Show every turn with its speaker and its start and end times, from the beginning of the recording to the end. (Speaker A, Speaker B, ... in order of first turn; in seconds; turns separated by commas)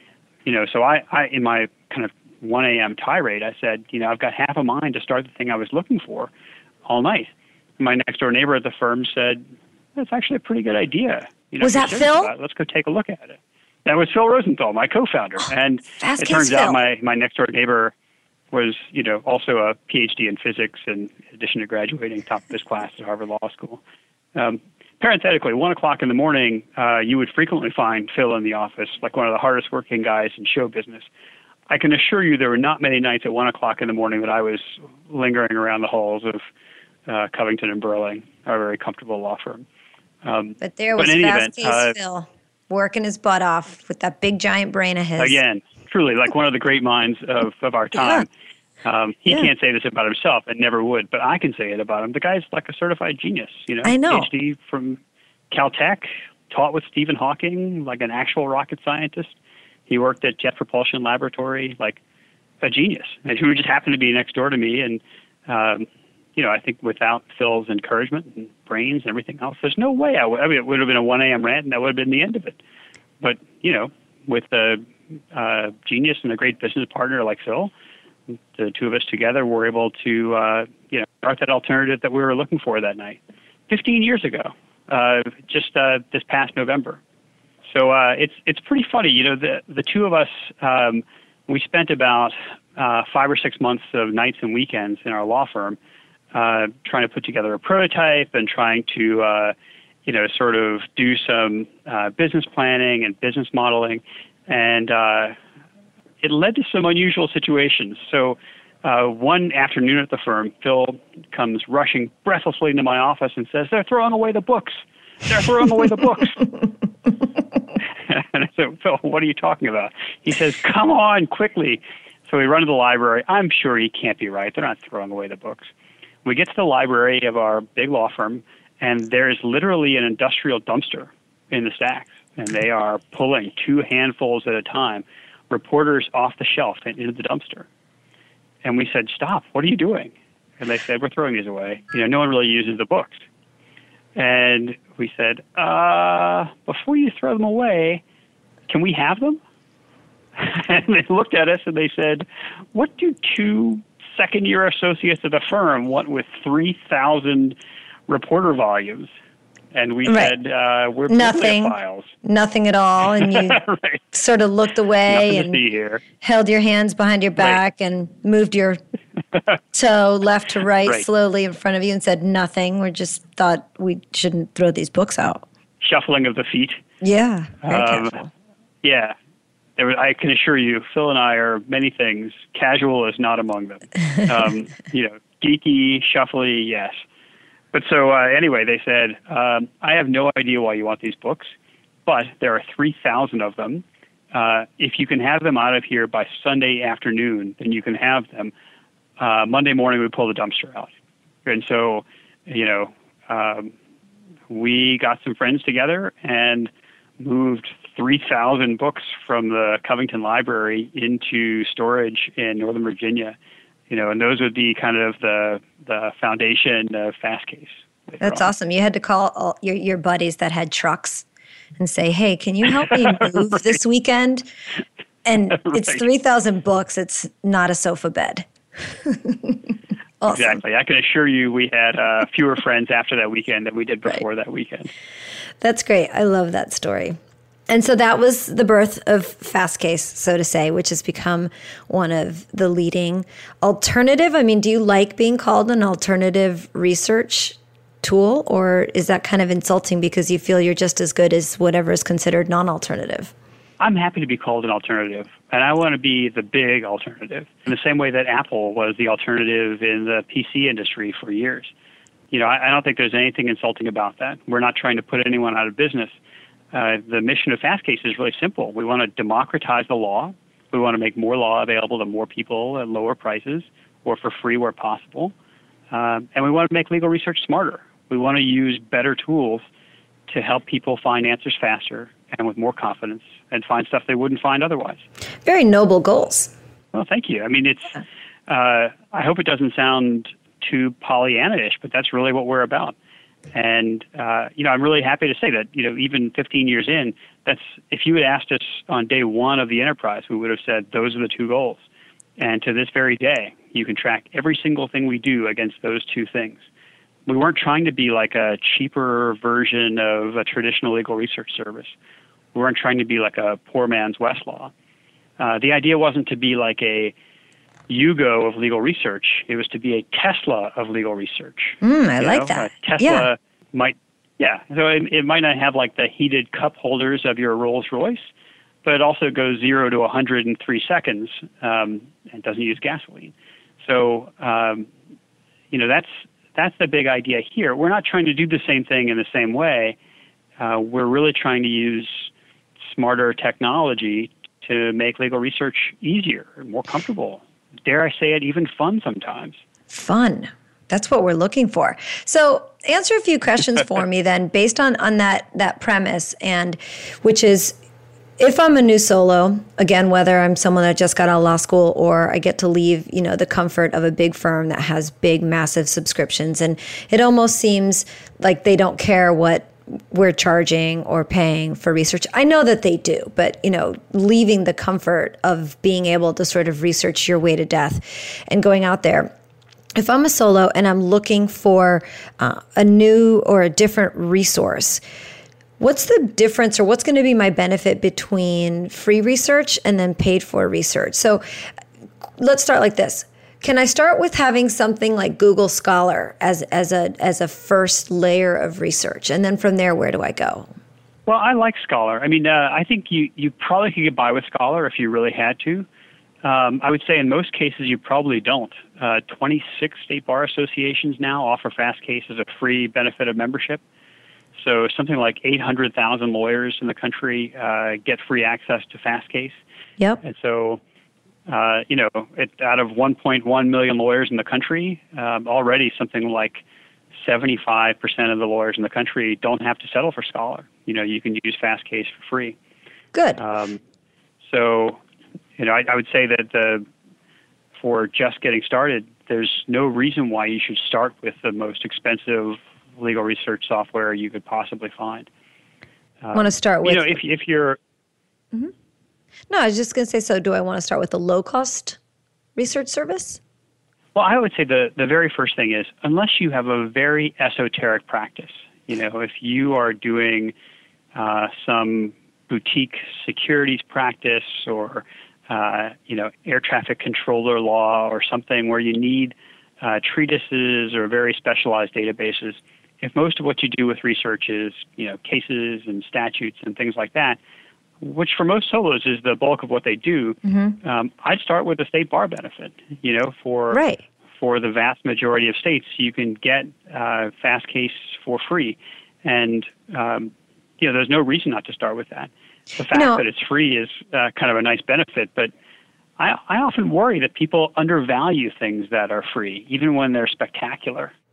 Speaker A: 0.5-6.3, Speaker A: 6.9-9.4, Speaker A: 9.9-17.9, Speaker B: 11.6-12.3, Speaker B: 15.9-16.8, Speaker A: 18.5-23.8, Speaker A: 24.4-31.1, Speaker A: 31.7-36.4, Speaker A: 37.1-39.6, Speaker A: 40.2-42.0, Speaker B: 40.6-45.4, Speaker A: 45.2-48.3, Speaker A: 48.8-55.0, Speaker B: 53.9-54.3, Speaker A: 55.5-59.4, Speaker A: 59.9-62.0, Speaker A: 62.6-72.6, Speaker A: 73.2-77.7, Speaker A: 78.3-87.0, Speaker A: 87.7-95.8, Speaker A: 96.3-99.5, Speaker A: 100.1-105.4, Speaker A: 106.2-116.4, Speaker A: 118.1-125.7, Speaker A: 126.2-137.7, Speaker A: 138.6-143.2, Speaker A: 144.2-148.0, Speaker A: 148.7-149.4, Speaker A: 150.4-157.6, Speaker A: 158.1-159.1, Speaker A: 159.7-162.1, Speaker B: 160.1-160.3, Speaker B: 161.1-165.6, Speaker A: 163.3-164.0, Speaker A: 165.1-166.0, Speaker B: 166.2-168.8, Speaker B: 169.7-175.4, Speaker A: 175.8-176.8, Speaker B: 177.0-178.3, Speaker A: 177.6-178.2, Speaker A: 178.8-179.2, Speaker A: 179.8-187.0, Speaker A: 187.7-191.5, Speaker A: 192.1-198.5, Speaker A: 199.2-200.9, Speaker A: 201.4-203.7, Speaker A: 204.5-213.4, Speaker A: 213.9-218.5, Speaker B: 218.2-221.3, Speaker B: 221.8-224.5, Speaker B: 225.3-230.6, Speaker A: 230.3-234.9, Speaker B: 235.6-237.2, Speaker B: 237.7-253.3, Speaker A: 253.8-261.7, Speaker A: 262.3-266.1, Speaker A: 266.7-275.3, Speaker A: 275.9-279.6, Speaker A: 280.3-285.0, Speaker B: 285.4-286.5, Speaker A: 286.9-292.9, Speaker A: 293.5-301.8, Speaker A: 302.4-306.6, Speaker A: 307.3-311.9, Speaker A: 312.5-314.7, Speaker A: 315.4-317.1, Speaker A: 317.9-328.3, Speaker B: 321.8-323.3, Speaker A: 328.8-334.9, Speaker A: 335.7-340.0, Speaker A: 340.6-342.3, Speaker A: 342.8-349.6, Speaker B: 349.9-357.8, Speaker B: 358.4-379.3, Speaker B: 379.9-385.0, Speaker B: 385.8-391.4, Speaker B: 392.4-400.7, Speaker A: 401.3-405.9, Speaker A: 406.4-413.8, Speaker A: 414.6-419.6, Speaker A: 420.2-420.8, Speaker A: 421.5-426.6, Speaker A: 427.2-432.6, Speaker B: 433.1-433.4, Speaker A: 433.4-433.8, Speaker A: 434.4-435.0, Speaker A: 435.6-436.9, Speaker A: 437.8-445.3, Speaker A: 446.2-447.8, Speaker B: 446.3-447.2, Speaker B: 449.5-452.0, Speaker B: 452.6-453.4, Speaker A: 454.1-460.5, Speaker A: 461.1-477.4, Speaker A: 478.0-483.8, Speaker B: 480.4-480.8, Speaker B: 483.7-484.0, Speaker A: 484.4-495.5, Speaker B: 492.9-493.2, Speaker A: 496.2-501.1